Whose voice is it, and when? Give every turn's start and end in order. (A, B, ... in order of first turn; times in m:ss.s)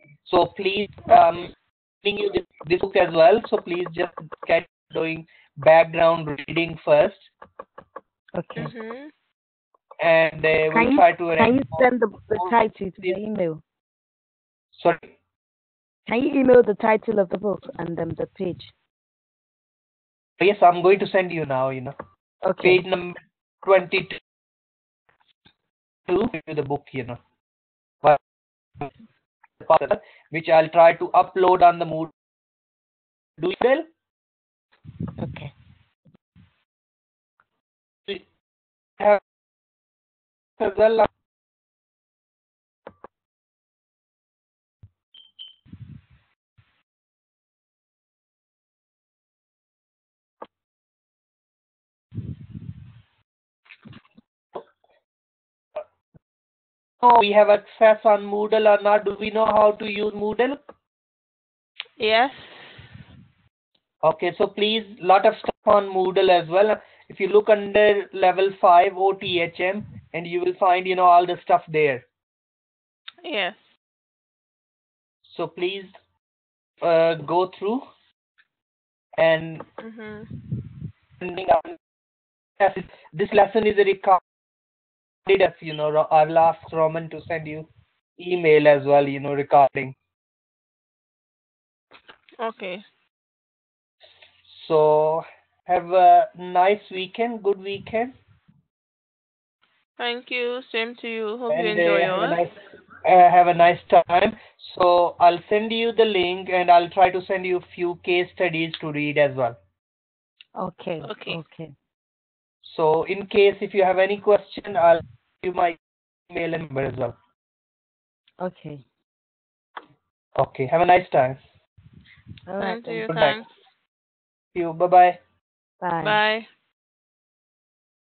0:00.3-0:07.3 A
0:08.4-0:08.7 B
0:08.6-0:09.1 C
0:10.0-0:13.2 A
0:10.7-0:13.6 B
0:14.7-0:15.1 A
0:16.1-0:18.7 B
0:20.4-0:22.0 A
0:22.4-0:22.8 B
0:22.6-0:24.2 A
0:26.1-0:27.2 A
0:29.6-0:32.1 A
0:33.4-0:33.9 A
0:35.2-0:35.5 B
0:39.0-0:39.2 A
0:40.6-0:41.1 A
0:57.0-1:00.6 A
1:02.0-1:02.9 C
1:04.0-1:12.0 A
1:13.2-1:13.8 C
1:15.2-1:16.0 A
1:16.8-1:17.9 A
1:19.2-1:19.6 A
1:19.8-1:20.4 C
1:21.2-1:21.8 A
1:22.6-1:24.2 A
1:25.2-1:30.0 A
1:32.4-1:32.8 C
1:34.4-1:38.1 A
1:40.0-1:42.4 C
1:41.5-1:49.6 A
1:50.6-1:51.7 B
1:51.0-1:51.4 C
1:52.6-1:55.8 A
1:56.3-1:57.2 A
1:58.4-1:58.8 B
2:00.4-2:01.4 A
2:02.5-2:03.3 B
2:02.6-2:03.5 C
2:03.1-2:03.4 A
2:04.5-2:05.2 A
2:05.8-2:06.2 B
2:06.0-2:06.5 C